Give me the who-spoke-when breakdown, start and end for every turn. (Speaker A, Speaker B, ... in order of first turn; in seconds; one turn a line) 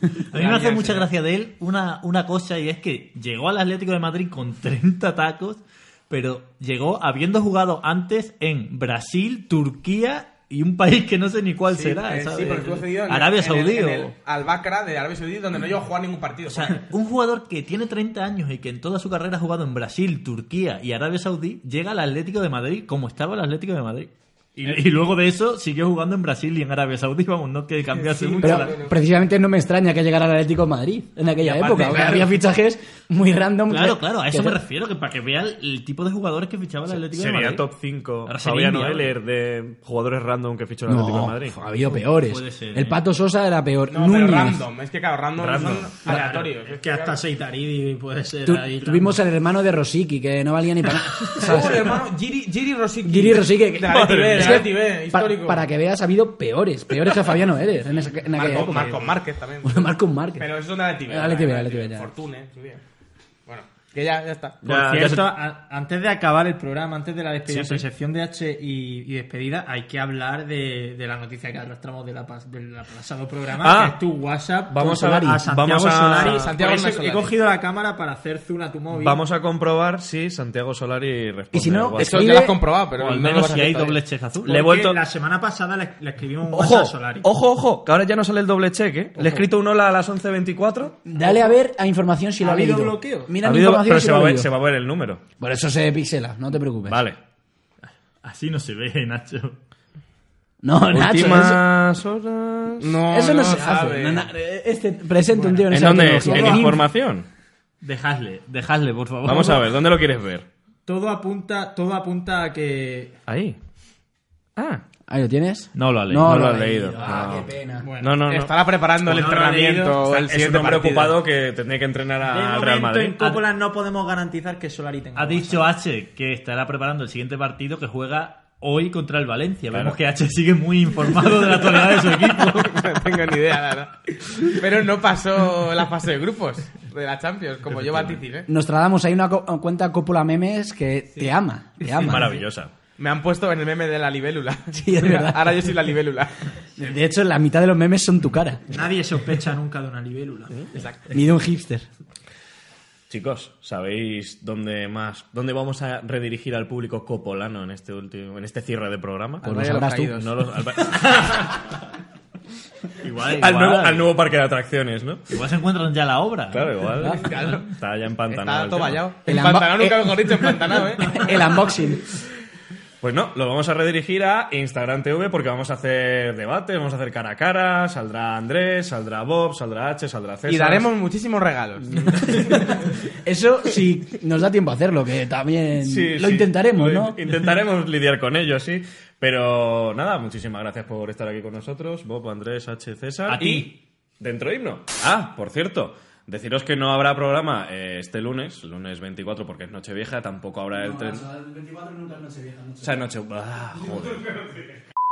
Speaker A: 0.3-14.2
Speaker B: 0.3-1.1
Speaker B: 11.7-16.8
Speaker A: 16.5-28.8
Speaker B: 27.9-29.0
Speaker C: 28.4-34.6
Speaker B: 31.4-32.3
Speaker A: 33.7-37.7
Speaker D: 37.1-41.6
Speaker A: 38.3-39.1
Speaker C: 40.9-44.6
Speaker A: 42.0-43.0
Speaker B: 43.9-47.2
Speaker D: 45.4-46.0
Speaker E: 46.0-49.2
Speaker C: 48.5-52.0
Speaker B: 51.4-55.6
Speaker C: 53.0-59.0
Speaker B: 58.3-62.8
Speaker C: 59.6-60.5
Speaker C: 61.0-62.1
Speaker B: 63.5-64.6
Speaker D: 64.6-65.3
Speaker E: 64.7-79.2
Speaker D: 67.5-67.8
Speaker D: 73.6-74.0
Speaker D: 74.7-76.5
Speaker C: 74.8-75.5
Speaker B: 76.1-77.3
Speaker D: 78.9-82.5
Speaker C: 81.5-82.6
Speaker B: 82.0-84.0
Speaker A: 83.0-84.6
Speaker E: 84.4-87.3
Speaker D: 84.5-85.0
Speaker D: 86.5-91.0
Speaker E: 89.2-89.4
Speaker C: 91.1-94.5
Speaker E: 91.2-91.5
Speaker E: 92.4-93.4
Speaker D: 93.4-95.2
Speaker C: 95.4-97.0
Speaker D: 96.9-97.2
Speaker A: 98.2-99.6
Speaker C: 100.6-101.7
Speaker D: 100.9-103.0
Speaker B: 102.8-104.3
Speaker C: 103.1-106.9
Speaker E: 105.3-106.8
Speaker D: 105.7-107.3
Speaker A: 107.8-109.7
Speaker D: 109.2-110.5
Speaker E: 110.9-113.2
Speaker D: 113.3-113.6
Speaker D: 114.6-114.8
Speaker C: 115.1-117.9
Speaker A: 115.8-116.4
Speaker D: 116.2-118.5
Speaker E: 117.8-118.2
Speaker B: 118.3-121.2
Speaker E: 119.0-120.0
Speaker D: 120.1-123.4
Speaker E: 122.3-125.7
Speaker A: 125.2-132.8
Speaker B: 132.6-138.5
Speaker D: 137.8-138.2
Speaker C: 138.5-142.4
Speaker D: 142.0-142.7
Speaker B: 143.0-147.0
Speaker C: 144.7-145.8
Speaker C: 146.8-148.7
Speaker E: 148.7-150.7
Speaker B: 150.7-151.2
Speaker C: 151.1-151.9
Speaker D: 153.1-161.5
Speaker C: 159.4-160.3
Speaker B: 159.4-160.3
Speaker A: 163.0-164.1
Speaker D: 163.3-165.2
Speaker A: 165.3-167.1
Speaker D: 166.5-169.1
Speaker B: 167.1-167.8
Speaker B: 168.3-171.5
Speaker C: 169.3-172.2
Speaker D: 173.0-180.9
Speaker B: 180.5-182.7
Speaker C: 182.4-187.2
Speaker D: 185.8-201.2
Speaker A: 193.3-193.7
Speaker C: 200.7-203.0
Speaker D: 202.8-204.3
Speaker C: 203.8-204.3